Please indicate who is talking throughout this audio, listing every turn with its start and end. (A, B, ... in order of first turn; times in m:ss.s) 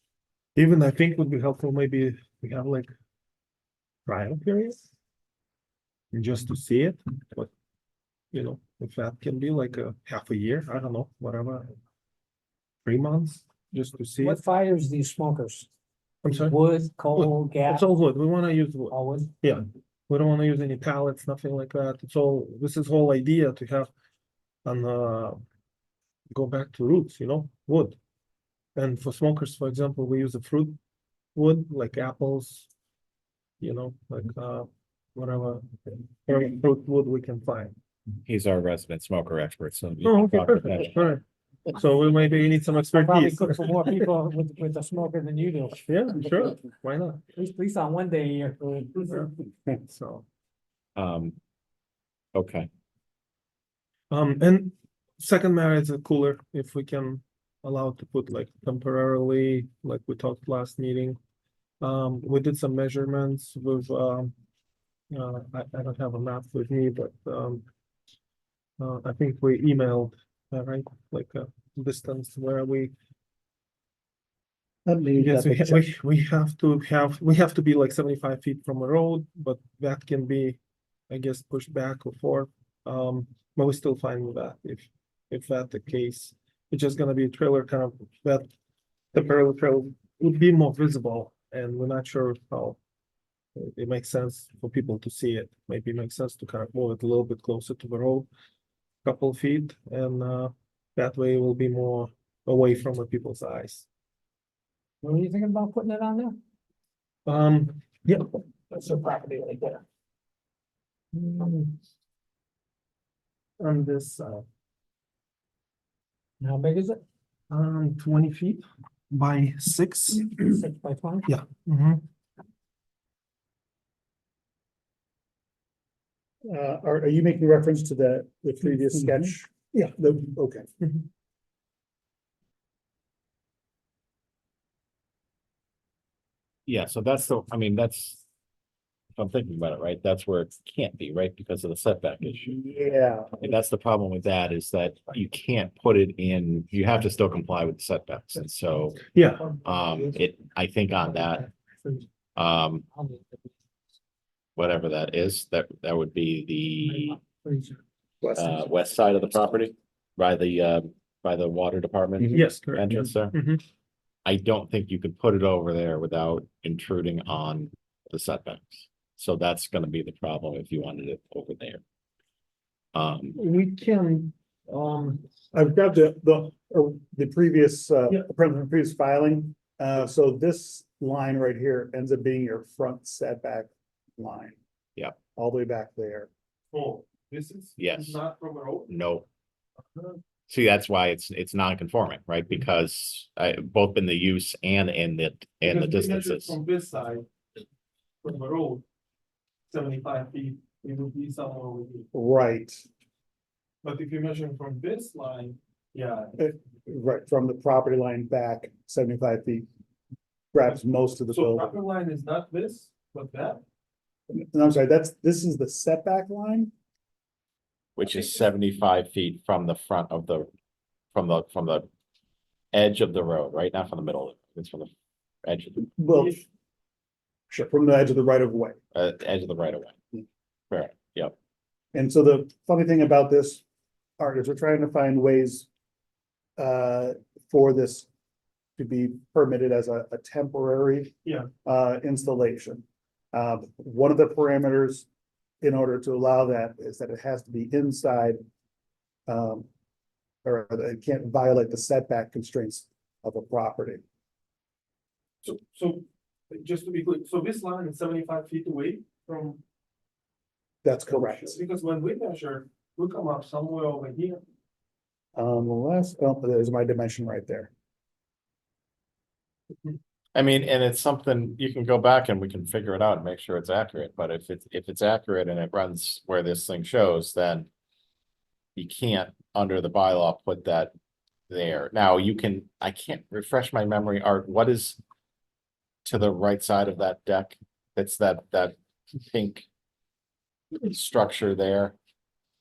0:00.6-0:02.9 A
0:04.0-0:04.9 A
0:06.1-0:07.5 A
0:08.3-0:11.7 A
0:12.8-0:14.4 A
0:14.2-0:15.7 B
0:16.2-0:16.6 A
0:16.3-0:17.9 B
0:17.1-0:23.9 A
0:18.9-0:19.3 B
0:24.6-0:25.4 A
0:26.3-0:28.0 A
0:28.8-0:30.8 A
0:31.3-0:32.7 A
0:33.6-0:35.7 A
0:36.2-0:37.7 A
0:38.2-0:41.1 C
0:40.0-0:43.9 A
0:42.9-0:45.9 B
0:45.9-0:47.3 A
0:47.4-0:49.2 B
0:49.1-0:50.2 A
0:51.0-0:51.3 C
0:52.3-0:52.7 C
0:54.1-1:01.2 A
1:01.8-1:04.3 A
1:05.1-1:07.6 A
1:08.8-1:12.9 A
1:14.8-1:15.8 D
1:15.2-1:20.6 A
1:21.1-1:28.5 A
1:29.1-1:32.8 A
1:33.6-1:38.3 A
1:39.0-1:43.9 A
1:45.0-1:46.4 B
1:47.2-1:48.3 A
1:48.7-1:49.8 B
1:51.1-1:51.7 A
1:53.6-1:54.4 A
1:56.4-1:57.0 B
1:57.5-2:00.6 A
2:00.4-2:01.3 B
2:01.2-2:02.0 A
2:06.5-2:10.6 D
2:16.6-2:18.2 C
2:19.2-2:22.6 C
2:22.4-2:23.4 D
2:23.4-2:29.1 C
2:29.1-2:29.5 A
2:29.4-2:30.1 B
2:29.6-2:31.4 C
2:31.5-2:32.0 B
2:32.4-2:32.8 C
2:33.0-2:33.5 B
2:34.6-2:37.2 C
2:36.8-2:37.8 B
2:38.2-2:38.5 D
2:38.4-2:43.4 C
2:42.3-2:43.6 A
2:44.2-2:51.8 C
2:52.9-2:53.4 C
2:53.3-2:55.2 A
2:55.5-3:04.6 D
3:05.4-3:06.3 D
3:06.7-3:08.9 A
3:07.8-3:08.2 C
3:08.9-3:09.2 C
3:10.5-3:16.6 C
3:15.6-3:17.3 A
3:18.2-3:18.8 A
3:19.7-3:22.1 A
3:22.1-3:22.8 D
3:23.8-3:26.4 A
3:26.4-3:29.6 D
3:30.5-3:31.7 D
3:31.3-3:33.6 A
3:34.3-3:36.7 D
3:38.0-3:40.5 C
3:41.1-3:41.9 C
3:42.7-3:44.9 C
3:45.4-3:45.9 C
3:46.0-3:46.4 D
3:47.5-3:48.8 D
3:48.9-3:50.0 C
3:50.7-3:51.3 C
3:51.9-3:53.6 D
3:54.2-3:55.7 D
3:56.6-3:58.1 D
3:58.8-4:05.1 D
4:01.2-4:01.5 A
4:05.6-4:08.4 D
4:09.3-4:09.7 D
4:10.4-4:14.0 D
4:15.4-4:19.6 A
4:20.8-4:21.6 D
4:21.1-4:24.4 A
4:25.3-4:27.7 D
4:30.3-4:37.7 C
4:38.8-4:40.9 C
4:41.5-4:45.0 C
4:46.0-4:49.6 C
4:50.8-4:52.0 C